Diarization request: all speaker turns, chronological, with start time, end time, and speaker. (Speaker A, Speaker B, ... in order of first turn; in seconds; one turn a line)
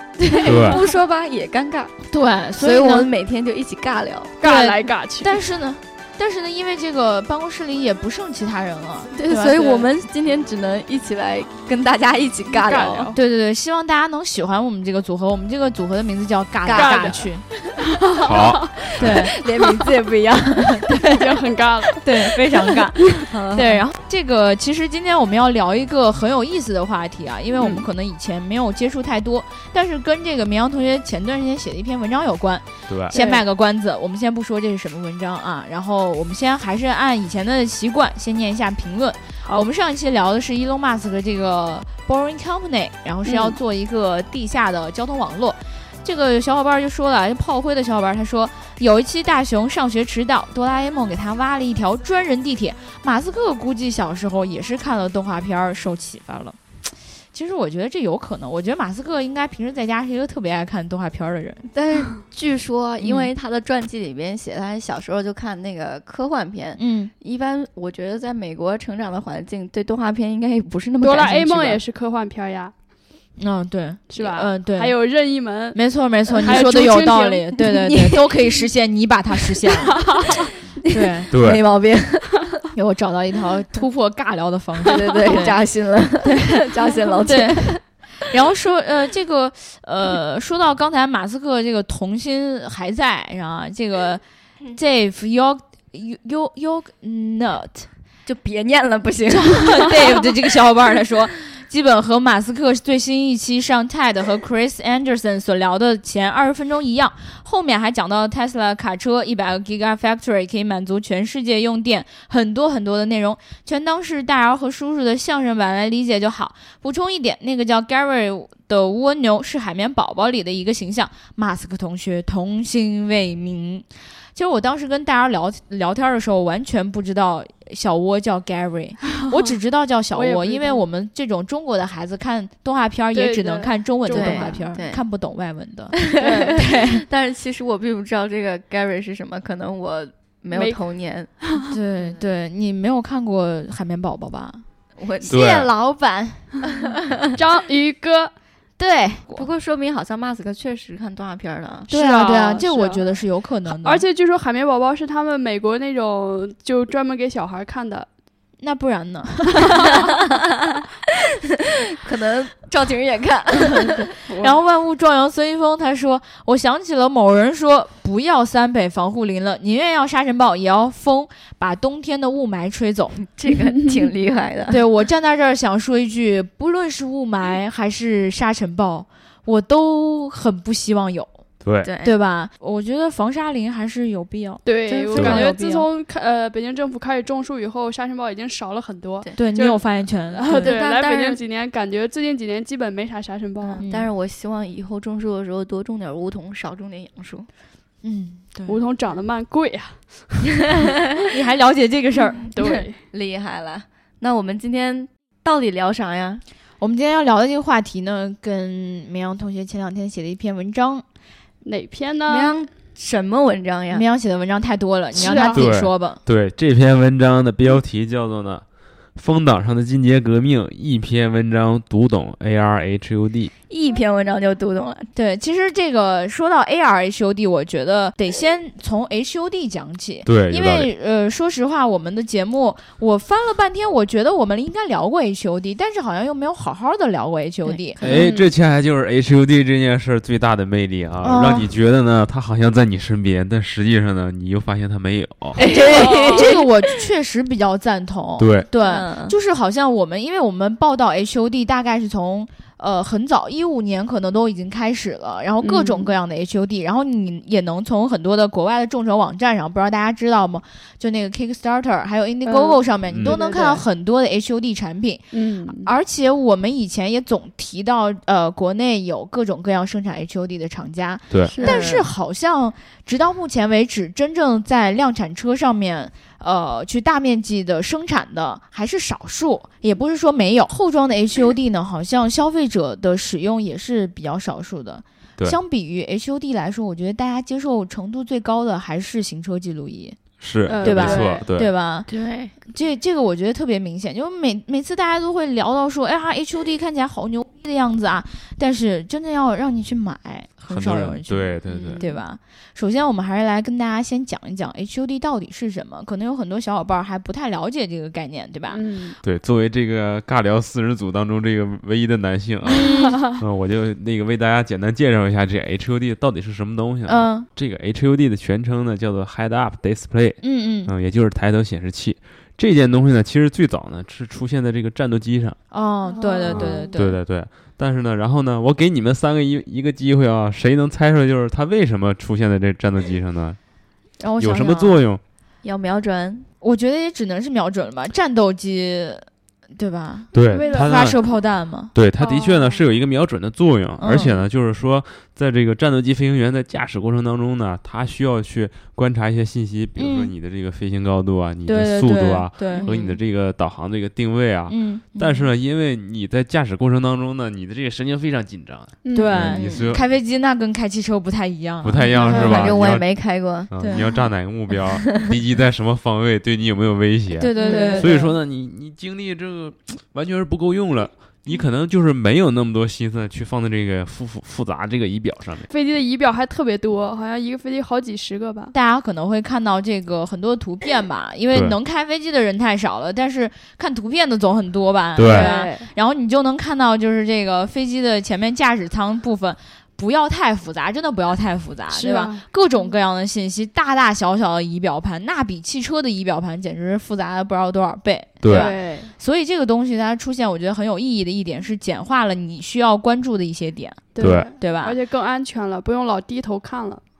Speaker A: 0.2-2.0
Speaker B: 0.4-0.8
Speaker C: 2.1-3.1
Speaker A: 2.5-4.3
Speaker D: 4.4-5.4
Speaker C: 4.4-9.7
Speaker A: 9.1-13.1
Speaker D: 9.6-9.9
Speaker D: 12.5-13.2
Speaker C: 13.1-17.4
Speaker A: 16.6-17.7
Speaker D: 16.7-17.3
Speaker D: 18.0-18.7
Speaker B: 18.2-19.2
Speaker A: 18.9-21.0
Speaker C: 19.0-19.4
Speaker C: 20.7-21.2
Speaker D: 21.1-22.0
Speaker C: 22.0-56.6
Speaker A: 23.1-23.8
Speaker B: 32.9-33.1
Speaker D: 33.1-33.4
Speaker D: 43.2-43.6
Speaker C: 57.2-61.6
Speaker A: 61.7-71.8
Speaker C: 63.0-63.3
Speaker C: 66.8-67.1
Speaker D: 71.0-72.7
Speaker C: 73.4-74.9
Speaker D: 74.1-75.8
Speaker C: 75.7-80.1
Speaker A: 76.4-77.0
Speaker D: 76.4-77.5
Speaker A: 77.7-78.5
Speaker D: 80.0-80.2
Speaker C: 80.9-81.3
Speaker A: 81.0-82.5
Speaker B: 81.3-81.6
Speaker C: 82.7-85.6
Speaker A: 84.8-87.8
Speaker C: 86.2-94.2
Speaker C: 94.7-97.9
Speaker A: 98.2-100.2
Speaker C: 99.3-137.0
Speaker D: 129.2-129.5
Speaker D: 130.1-130.8
Speaker D: 133.1-134.8
Speaker A: 134.1-135.0
Speaker A: 136.0-141.4
Speaker D: 136.2-136.6
Speaker D: 140.5-140.8
Speaker C: 141.7-144.6
Speaker A: 144.9-145.5
Speaker C: 145.2-146.7
Speaker B: 145.3-145.7
Speaker A: 146.6-147.1
Speaker D: 147.3-148.3
Speaker C: 148.8-149.5
Speaker A: 149.3-151.9
Speaker D: 151.9-158.1
Speaker C: 151.9-154.0
Speaker C: 158.6-160.1
Speaker A: 160.0-160.5
Speaker A: 162.0-164.1
Speaker D: 164.3-164.6
Speaker C: 164.4-173.2
Speaker A: 173.3-174.8
Speaker D: 173.4-174.0
Speaker C: 174.7-181.4
Speaker B: 181.6-181.9
Speaker A: 181.8-182.1
Speaker C: 182.0-185.8
Speaker D: 184.6-193.8
Speaker B: 185.1-185.4
Speaker C: 189.3-190.8
Speaker A: 190.6-191.4
Speaker A: 193.6-197.5
Speaker C: 193.8-194.1
Speaker C: 198.0-198.8
Speaker D: 198.7-200.7
Speaker C: 201.3-202.4
Speaker D: 202.5-203.0
Speaker A: 202.5-206.4
Speaker C: 206.8-211.0
Speaker D: 211.6-212.6
Speaker A: 212.3-214.0
Speaker C: 213.9-216.2
Speaker D: 215.1-215.6
Speaker B: 215.5-218.6
Speaker B: 219.1-223.5
Speaker A: 223.7-225.1
Speaker C: 225.1-238.0
Speaker B: 230.2-230.9
Speaker A: 237.7-238.3
Speaker B: 238.0-245.6
Speaker D: 238.0-238.5
Speaker C: 241.2-241.7
Speaker A: 245.6-246.7
Speaker C: 245.6-290.2
Speaker D: 245.9-246.5
Speaker B: 248.4-248.7
Speaker A: 248.8-249.3
Speaker D: 255.6-256.1
Speaker D: 262.4-263.8
Speaker B: 263.1-263.4
Speaker D: 265.3-265.9
Speaker B: 271.3-271.6
Speaker D: 271.5-272.0
Speaker A: 271.6-272.0
Speaker B: 290.4-291.7
Speaker D: 290.7-291.5
Speaker C: 290.8-308.8
Speaker A: 292.1-292.5
Speaker B: 300.7-302.0
Speaker A: 301.6-302.2
Speaker D: 308.7-309.2
Speaker B: 309.2-325.6
Speaker C: 312.6-313.2
Speaker C: 317.1-317.5
Speaker C: 320.4-320.9
Speaker C: 325.7-327.2
Speaker D: 326.1-326.9
Speaker B: 326.4-333.6
Speaker C: 334.2-335.0
Speaker B: 334.4-335.2
Speaker A: 335.6-336.5
Speaker C: 336.6-341.9
Speaker B: 340.3-341.1
Speaker D: 340.5-341.3
Speaker B: 341.9-360.1
Speaker D: 342.2-342.8
Speaker C: 344.0-344.4
Speaker C: 350.0-350.3
Speaker C: 351.6-352.9
Speaker A: 352.8-353.2
Speaker C: 354.7-355.5
Speaker D: 359.0-359.4
Speaker C: 359.1-362.5
Speaker B: 361.8-363.1
Speaker A: 362.0-364.2
Speaker D: 362.2-362.6
Speaker B: 363.7-375.7
Speaker C: 363.8-364.0
Speaker A: 364.8-365.3
Speaker C: 367.4-368.2
Speaker D: 367.6-368.2
Speaker A: 367.6-368.0
Speaker D: 375.7-378.7
Speaker C: 378.7-405.0
Speaker B: 385.1-385.5
Speaker D: 385.2-385.9
Speaker D: 391.9-392.9
Speaker B: 398.4-398.7
Speaker D: 398.5-399.1
Speaker D: 404.1-407.0
Speaker B: 404.2-404.5